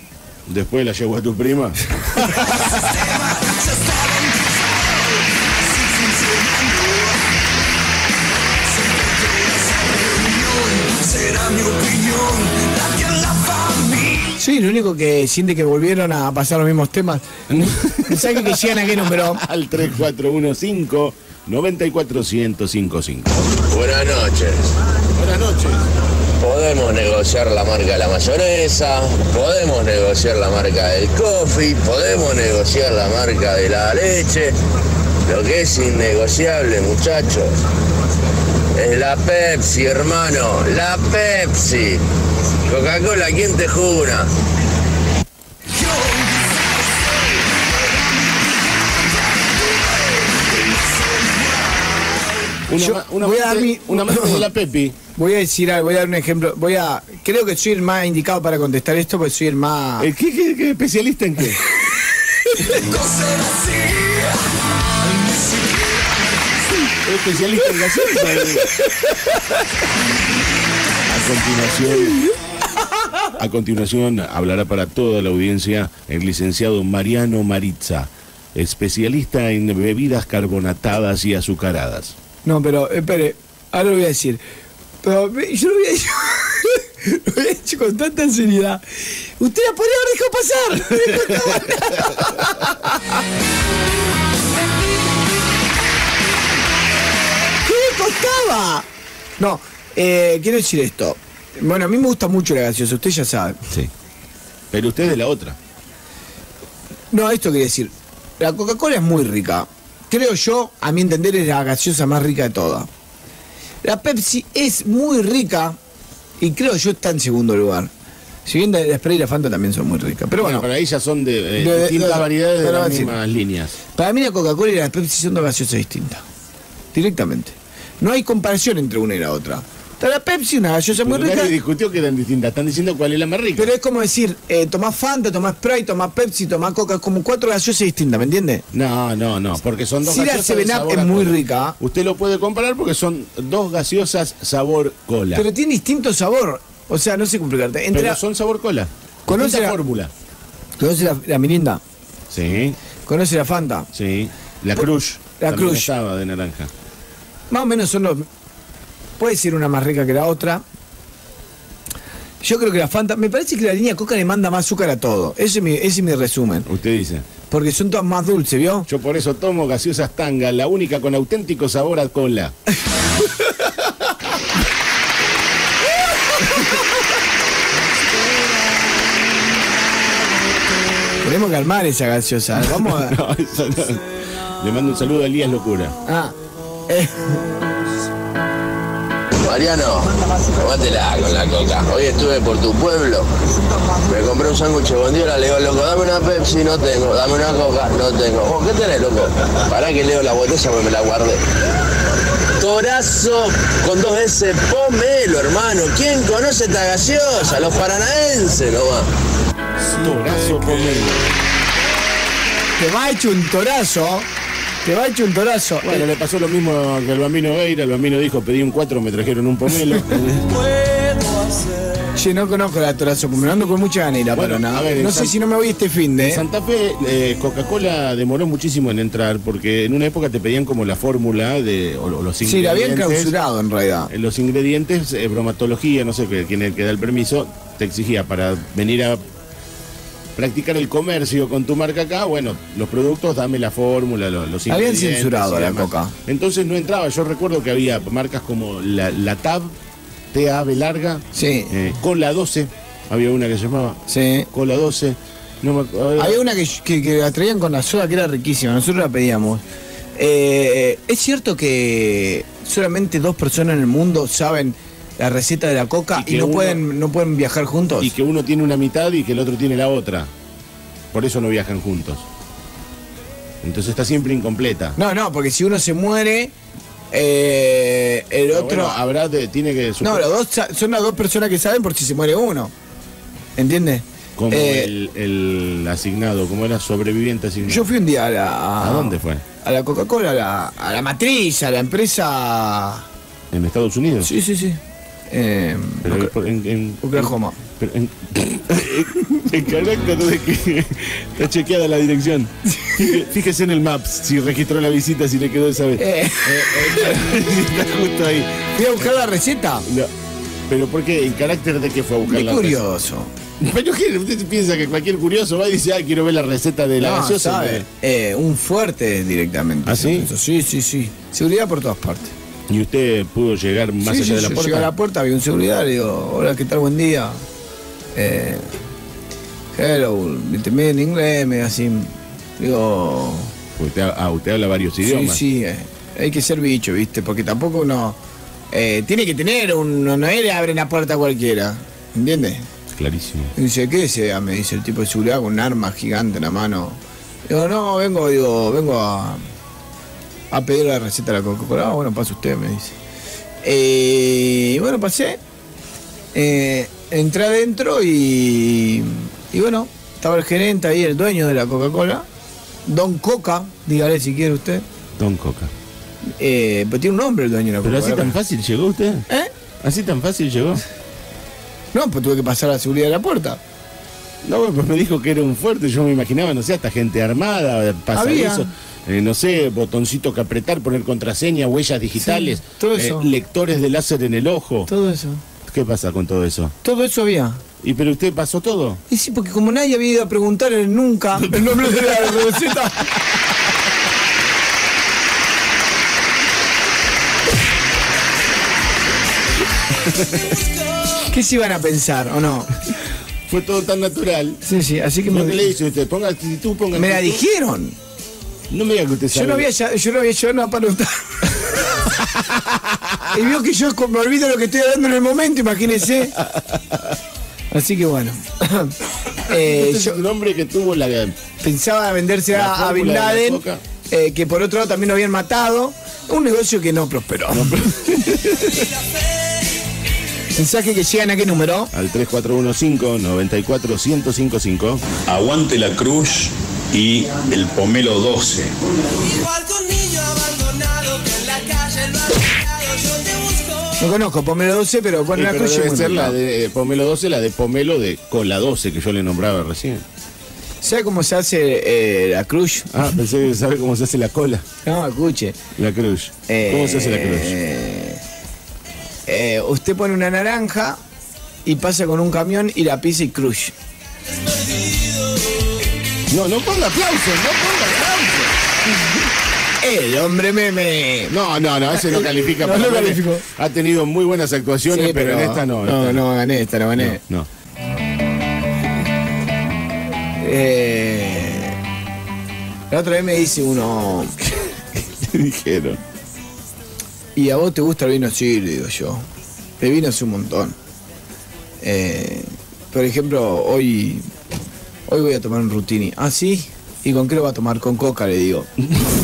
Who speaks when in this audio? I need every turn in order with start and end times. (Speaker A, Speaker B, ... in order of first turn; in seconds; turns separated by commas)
Speaker A: 0.5-3.1, Speaker B: 2.7-7.3, Speaker B: 8.7-14.3, Speaker C: 14.4-17.2, Speaker A: 17.5-23.5, Speaker C: 18.0-19.4, Speaker D: 23.5-24.7, Speaker A: 25.1-25.8, Speaker D: 26.4-34.5, Speaker D: 35.2-37.5, Speaker D: 38.7-42.0, Speaker D: 42.6-44.3, Speaker B: 45.7-52.5, Speaker A: 52.7-55.0, Speaker C: 52.8-54.5, Speaker C: 55.1-60.1, Speaker A: 60.0-61.6, Speaker B: 62.6-66.5, Speaker A: 67.0-68.8, Speaker A: 71.1-72.3, Speaker A: 73.3-82.1, Speaker C: 82.4-84.4, Speaker C: 85.0-93.2, Speaker C: 97.6-98.9, Speaker C: 99.4-103.6, Speaker A: 104.7-105.6, Speaker C: 107.1-112.9, Speaker C: 113.8-115.8, Speaker C: 116.4-117.9, Speaker C: 118.5-120.7, Speaker A: 120.4-123.8, Speaker C: 121.6-123.2, Speaker C: 123.9-126.2, Speaker C: 126.9-131.5, Speaker A: 130.9-133.7, Speaker C: 133.6-138.6, Speaker A: 138.7-145.5, Speaker C: 140.0-141.8, Speaker C: 145.3-148.2, Speaker A: 147.9-150.1, Speaker C: 149.3-149.8, Speaker C: 150.8-151.8, Speaker A: 152.3-152.8, Speaker C: 153.1-153.9, Speaker A: 153.9-156.7, Speaker C: 155.4-155.9, Speaker C: 157.5-158.3, Speaker C: 159.2-160.6, Speaker C: 162.4-166.7, Speaker A: 166.7-167.3, Speaker C: 167.5-168.9, Speaker A: 168.9-172.5, Speaker C: 181.2-183.2, Speaker A: 182.6-185.9, Speaker C: 186.0-186.3, Speaker C: 186.9-187.4, Speaker D: 189.4-193.3, Speaker D: 193.9-201.5, Speaker D: 202.6-209.1, Speaker A: 209.8-211.3, Speaker C: 212.8-214.3, Speaker C: 214.8-216.1, Speaker A: 215.8-220.5, Speaker B: 220.6-222.0, Speaker C: 222.1-226.4, Speaker A: 224.3-225.3, Speaker A: 226.2-233.3, Speaker C: 232.4-234.1, Speaker A: 234.1-239.2, Speaker A: 240.3-249.8, Speaker C: 244.7-246.1, Speaker A: 250.3-256.4, Speaker C: 251.3-251.7, Speaker C: 254.1-254.5, Speaker C: 256.2-259.6, Speaker C: 260.1-268.1, Speaker A: 266.1-266.8, Speaker A: 268.0-270.3, Speaker A: 271.1-272.2, Speaker A: 273.6-275.0, Speaker C: 274.9-276.5, Speaker C: 277.1-279.0, Speaker A: 278.5-280.3, Speaker C: 280.0-282.7, Speaker C: 283.6-284.9, Speaker A: 284.4-287.9, Speaker C: 287.6-293.1, Speaker A: 288.8-289.4, Speaker A: 293.5-294.3, Speaker C: 294.2-296.3, Speaker A: 296.0-308.7, Speaker C: 297.0-297.6, Speaker C: 302.8-303.1, Speaker C: 306.0-307.2, Speaker C: 308.7-309.9, Speaker A: 309.9-310.1, Speaker A: 310.7-312.9, Speaker C: 312.3-313.3, Speaker A: 313.6-317.9, Speaker C: 317.0-322.3, Speaker A: 319.8-320.3, Speaker A: 322.7-324.9, Speaker C: 324.0-327.4, Speaker C: 328.1-328.7, Speaker C: 329.7-333.5, Speaker A: 333.7-335.4, Speaker C: 335.0-338.2, Speaker C: 338.7-342.7, Speaker A: 342.9-343.5, Speaker C: 343.5-349.4, Speaker C: 350.5-352.9, Speaker C: 353.6-355.4, Speaker C: 356.3-362.3, Speaker C: 362.9-364.8, Speaker A: 365.2-365.7, Speaker C: 366.3-368.3, Speaker A: 367.8-369.2, Speaker A: 369.8-370.8, Speaker C: 371.9-373.6, Speaker A: 374.4-384.9, Speaker C: 378.1-378.7, Speaker C: 382.2-383.3, Speaker C: 384.9-385.4, Speaker A: 385.6-386.8, Speaker C: 386.8-387.6, Speaker A: 387.8-389.0, Speaker C: 389.1-393.2, Speaker A: 391.5-392.3, Speaker A: 400.0-400.6, Speaker C: 401.2-402.8, Speaker A: 403.5-404.6, Speaker C: 404.6-405.8, Speaker A: 405.3-407.4, Speaker C: 406.9-407.9, Speaker A: 408.7-409.7, Speaker C: 409.3-411.9, Speaker A: 412.1-413.1, Speaker C: 413.3-416.4, Speaker A: 416.5-416.9, Speaker C: 417.7-420.2, Speaker A: 419.5-421.4, Speaker C: 421.6-427.9, Speaker A: 422.5-423.8, Speaker A: 427.5-428.9, Speaker C: 430.5-431.9, Speaker A: 431.9-435.1, Speaker E: 435.2-438.7, Speaker B: 439.2-443.9, Speaker C: 444.0-446.4, Speaker A: 445.3-450.0, Speaker C: 450.8-453.0, Speaker A: 452.9-454.6, Speaker C: 454.8-455.6, Speaker A: 455.8-457.6, Speaker C: 456.5-458.2, Speaker C: 459.3-461.0, Speaker C: 461.6-463.7, Speaker A: 466.3-468.8, Speaker C: 469.8-471.3, Speaker A: 471.3-476.2, Speaker C: 471.9-473.4, Speaker C: 474.9-477.2, Speaker A: 476.9-477.5, Speaker C: 480.4-481.8, Speaker C: 482.9-484.4, Speaker A: 485.1-486.0, Speaker C: 487.3-489.2, Speaker C: 489.8-490.8, Speaker C: 491.8-494.3, Speaker C: 495.1-498.7, Speaker A: 498.9-499.1